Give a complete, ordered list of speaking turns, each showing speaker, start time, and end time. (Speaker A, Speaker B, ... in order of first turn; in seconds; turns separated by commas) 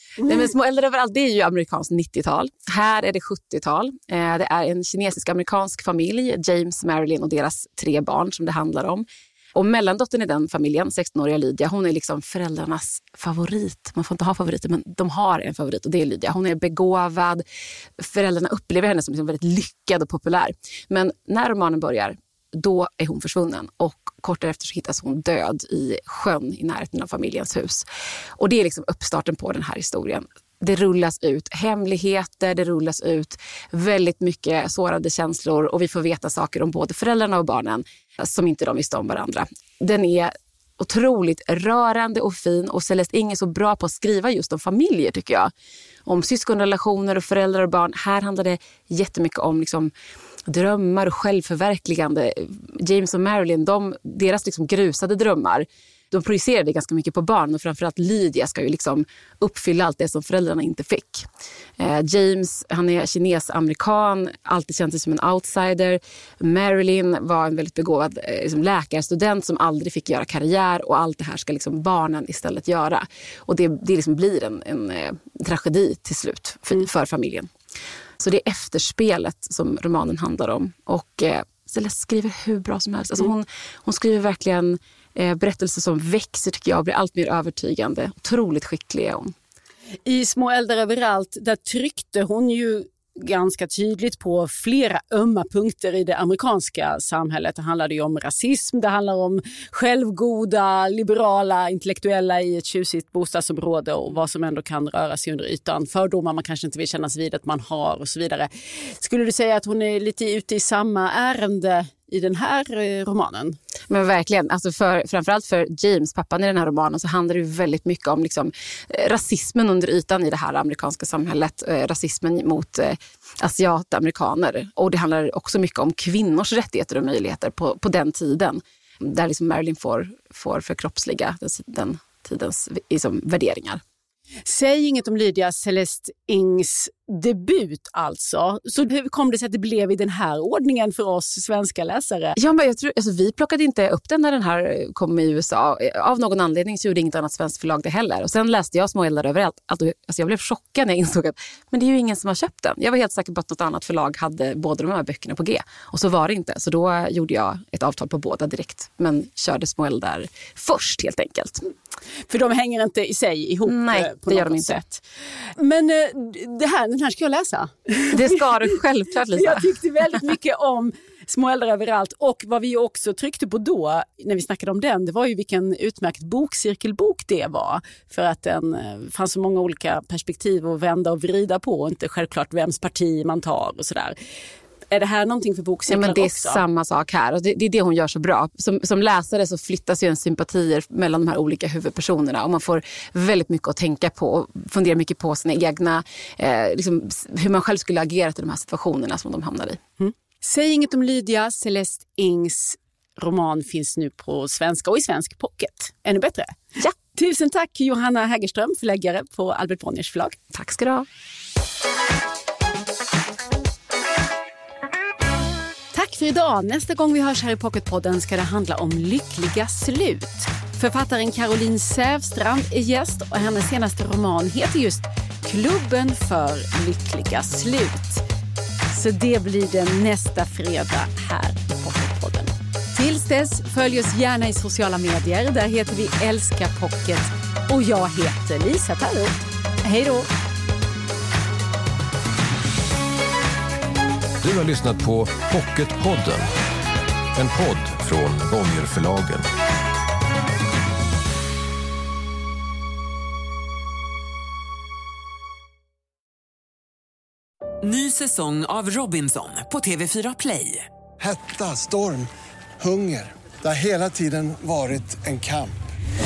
Speaker A: 0.2-17.4, Speaker B: 0.2-0.5, Speaker A: 18.0-27.9, Speaker A: 28.4-45.5, Speaker A: 46.1-49.9, Speaker A: 50.5-61.3, Speaker A: 61.8-77.5, Speaker A: 78.2-89.3, Speaker B: 90.0-113.6, Speaker A: 113.9-133.8, Speaker B: 134.4-142.4, Speaker A: 142.4-161.7, Speaker B: 162.3-165.0, Speaker A: 163.7-164.8, Speaker B: 165.6-168.8, Speaker A: 168.1-169.8, Speaker B: 169.3-184.2, Speaker B: 184.9-186.6, Speaker A: 185.9-199.8, Speaker B: 200.0-210.4, Speaker A: 210.5-211.1, Speaker B: 215.9-228.2, Speaker B: 228.9-240.3, Speaker C: 244.4-246.5, Speaker C: 247.3-249.5, Speaker D: 257.8-260.9, Speaker E: 261.2-265.8